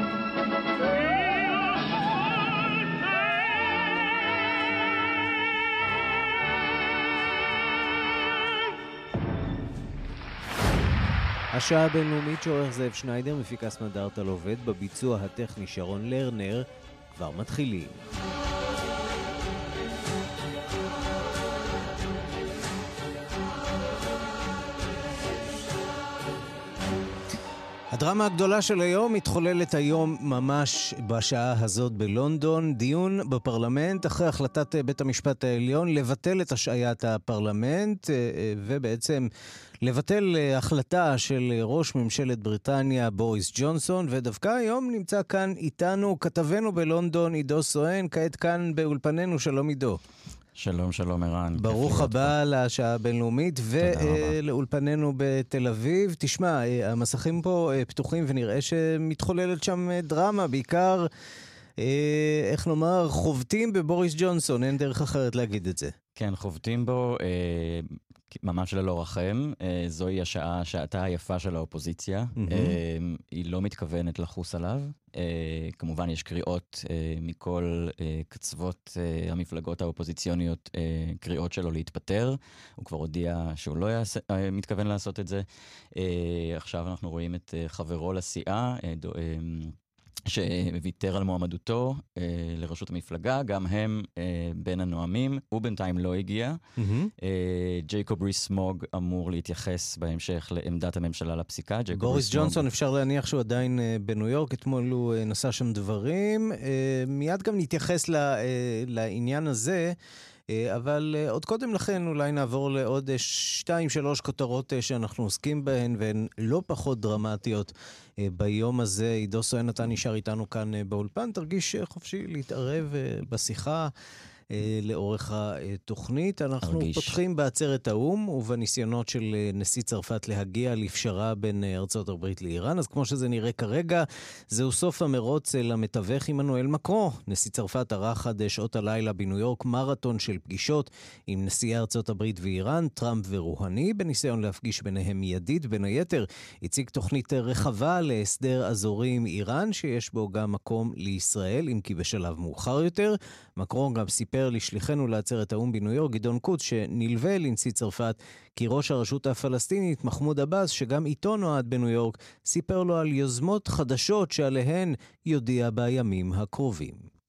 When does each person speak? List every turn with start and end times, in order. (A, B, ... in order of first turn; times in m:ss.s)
0:11.5-0:18.0 A
0:27.9-0:39.2 A
0:39.8-0:50.0 A
0:50.6-0:52.4 B
0:51.6-1:01.1 A
0:53.8-0:54.4 B
1:01.8-1:05.9 A
1:06.2-1:29.7 B
1:12.4-1:12.8 A
1:30.3-1:36.6 B
1:36.8-1:37.1 A
1:37.2-1:42.7 B
1:41.9-1:49.9 A
1:50.5-1:57.7 A
1:58.2-2:03.9 A
2:04.5-2:47.1 A
2:06.6-2:07.2 B